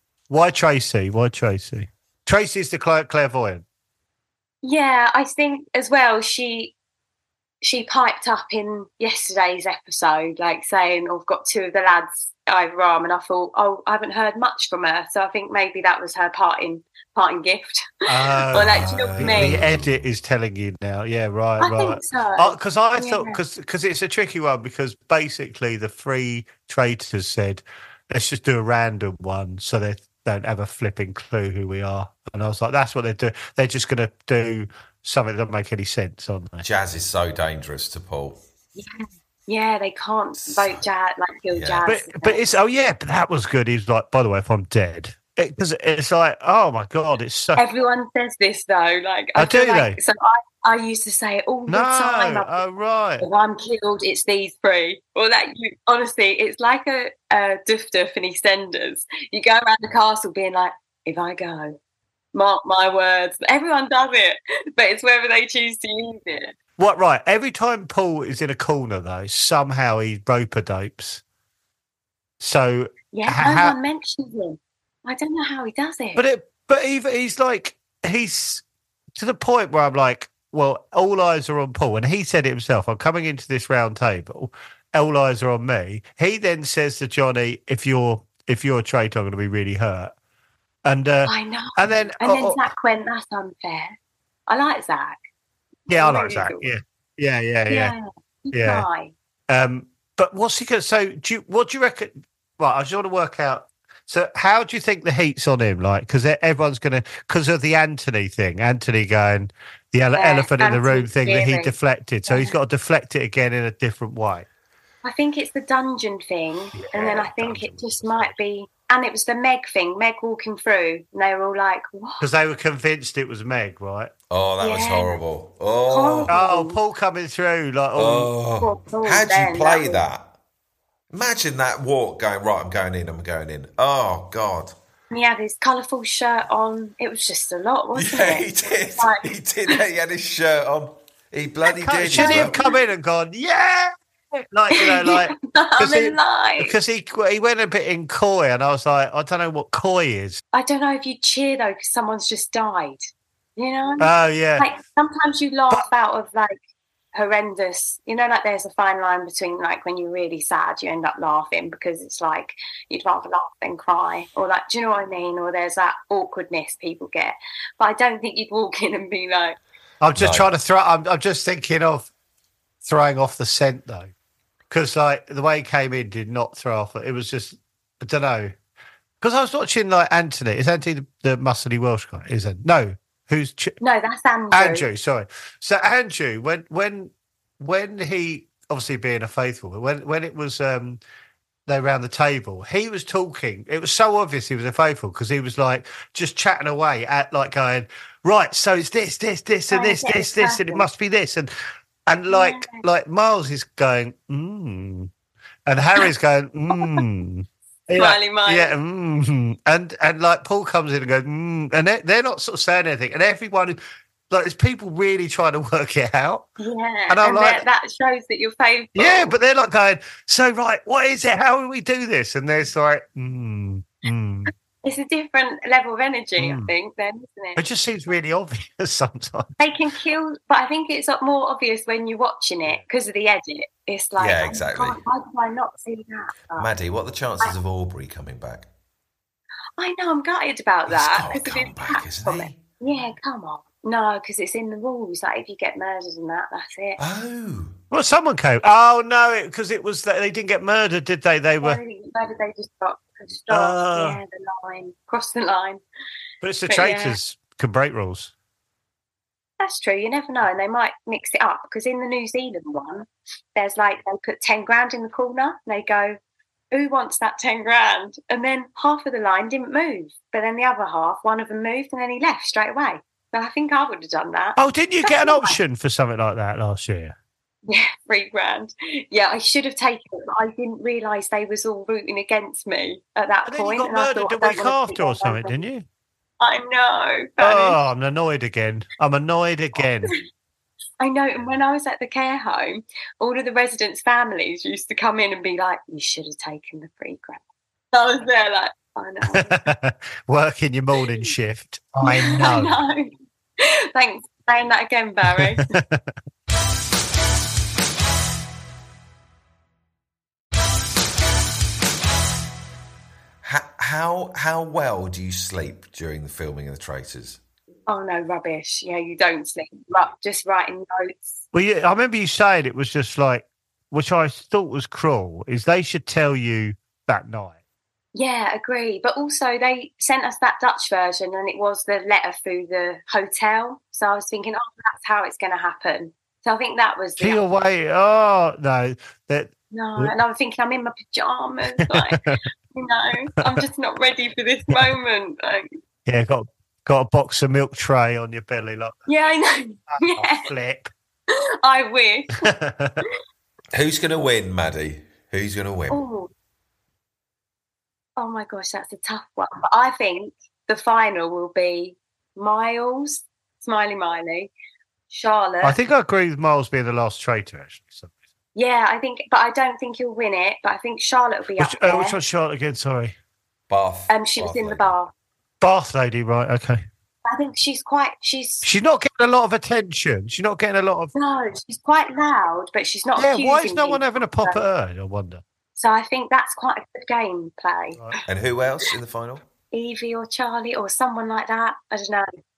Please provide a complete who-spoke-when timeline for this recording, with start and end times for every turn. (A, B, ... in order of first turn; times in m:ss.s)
0:00.3-0:03.6 A
0:04.6-0:06.7 B
0:07.6-0:19.6 B
0:18.1-0:36.6 A
0:18.5-0:20.0 C
0:21.6-0:23.4 B
0:36.6-0:38.4 C
0:38.8-0:42.4 B
0:40.5-0:40.8 C
0:41.5-0:41.8 C
0:41.9-0:47.6 A
0:47.6-0:52.6 B
0:49.4-0:50.0 A
0:51.7-0:53.2 A
0:53.2-1:01.8 B
1:02.3-1:06.5 B
1:06.8-1:11.2 A
1:12.4-1:13.7 A
1:13.1-1:16.2 B
1:16.2-1:18.6 A
1:19.2-1:30.1 A
1:30.8-1:32.6 A
1:31.2-1:34.0 B
1:34.5-1:35.2 B
1:35.9-1:36.7 B
1:35.9-1:37.9 A
1:37.7-1:39.1 B
1:38.5-1:38.8 A
1:39.5-1:54.5 A
1:50.2-1:51.7 B
1:52.3-1:52.6 B
1:55.0-2:02.3 B
1:56.7-1:58.3 A
2:02.2-2:04.1 A
2:04.3-2:06.3 C
2:04.6-2:05.2 B
2:05.9-2:06.8 B
2:06.3-2:08.3 A
2:08.0-2:10.3 C
2:08.6-2:10.0 B
2:11.1-2:14.7 C
2:15.1-2:19.7 B
2:17.9-2:22.6 C
2:21.8-2:30.4 A
2:22.1-2:22.8 B
2:24.7-2:26.7 B
2:30.5-2:36.6 B
2:34.0-2:34.7 A
2:37.1-2:49.6 B
2:50.0-2:52.1 A
2:50.1-2:50.5 C
2:52.8-2:54.1 A
2:54.7-2:58.5 A
2:59.2-3:03.7 A
3:03.8-3:04.8 B
3:04.5-3:11.0 A
3:11.7-3:21.5 A
3:19.7-3:20.8 B
3:22.1-3:25.1 A
3:22.3-3:22.8 B
3:25.7-3:33.8 A
3:26.7-3:27.0 B
3:28.0-3:28.7 B
3:34.3-3:36.5 A
3:36.6-3:39.3 B
3:37.1-3:37.6 A
3:38.9-3:44.5 A
3:44.8-3:47.6 B
3:46.4-3:46.7 A
3:47.6-3:49.5 A
3:49.6-3:56.7 B
3:54.2-3:55.0 C
3:56.6-3:58.7 C
3:59.8-4:07.0 B
4:00.9-4:02.6 C
4:07.0-4:07.8 C
4:07.9-4:11.8 A
4:11.6-4:15.8 B
4:13.5-4:14.2 A
4:16.4-4:18.3 A
4:16.7-4:17.2 B
4:19.6-4:26.2 B
4:26.7-4:35.6 B
4:34.6-4:37.1 A
4:37.7-4:45.6 B
4:43.5-4:45.8 A
4:46.4-4:47.8 B
4:47.4-4:50.1 A
4:51.0-4:57.4 B
4:57.9-4:59.6 B
4:59.3-5:02.8 A
5:02.0-5:05.7 B
5:05.3-5:06.1 A
5:13.4-5:17.4 C
5:17.9-5:21.4 B
5:21.5-5:27.5 A
5:28.1-5:37.4 B
5:37.2-5:40.1 A
5:39.7-5:45.7 B
5:41.8-5:42.4 A
5:44.7-5:44.9 A
5:46.0-5:49.0 A
5:49.1-5:50.5 B
5:50.0-5:50.9 A
5:51.3-5:52.5 B
5:52.4-5:53.0 A
5:53.7-5:56.0 C
5:55.9-5:56.3 B
5:58.2-6:04.5 B
6:05.1-6:05.8 B
6:05.6-6:08.1 A
6:08.5-6:12.2 B
6:11.6-6:13.1 A
6:13.7-6:14.9 C
6:14.1-6:15.1 B
6:15.6-6:16.8 A
6:17.2-6:18.7 B
6:18.6-6:21.1 A
6:21.1-6:24.6 B
6:23.2-6:25.4 A
6:25.8-6:28.2 B
6:28.3-6:29.4 C
6:29.7-6:32.3 B